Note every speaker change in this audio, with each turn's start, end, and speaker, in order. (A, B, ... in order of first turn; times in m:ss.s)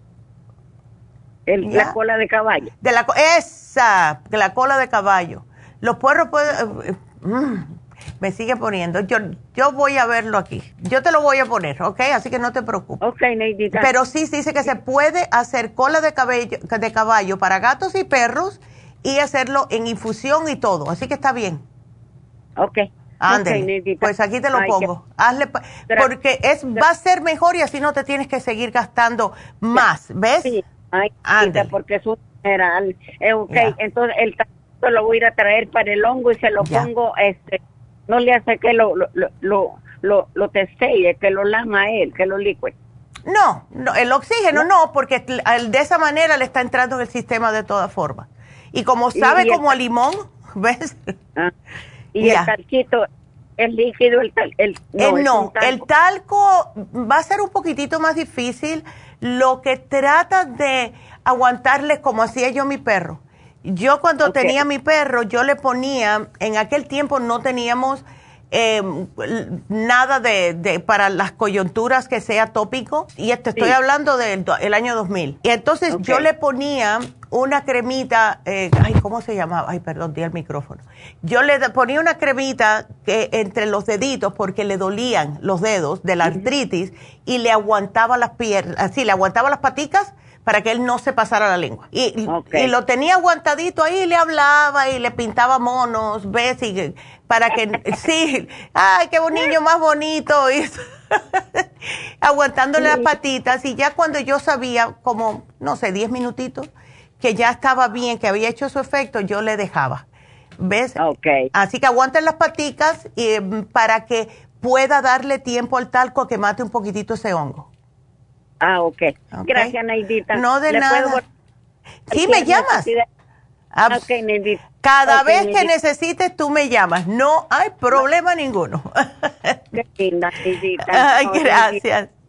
0:01.5-0:02.7 A
0:01.6-0:01.9 B
0:02.8-0:13.0 B
0:13.0-0:13.9 A
0:13.7-0:21.6 B
0:22.6-0:24.9 A
0:23.2-0:30.6 B
0:30.4-0:42.7 A
0:31.2-0:31.7 B
0:36.6-0:36.9 B
0:43.2-0:51.1 B
0:49.1-0:49.7 A
0:52.1-0:53.0 A
0:52.2-0:52.5 B
0:53.6-0:55.8 A
0:55.0-1:50.0 B
1:04.2-1:04.6 A
1:15.9-1:16.2 A
1:26.2-1:26.5 A
1:32.3-1:32.7 A
1:42.8-1:43.1 A
1:50.6-1:51.0 B
1:51.0-1:51.4 A
1:51.5-1:57.7 B
1:58.6-2:01.2 A
1:59.3-1:59.7 B
2:00.3-2:01.2 B
2:02.1-2:02.9 B
2:02.1-2:03.1 A
2:03.7-2:04.1 B
2:03.9-2:05.7 A
2:04.8-2:09.6 B
2:09.7-2:11.8 A
2:10.8-2:12.1 B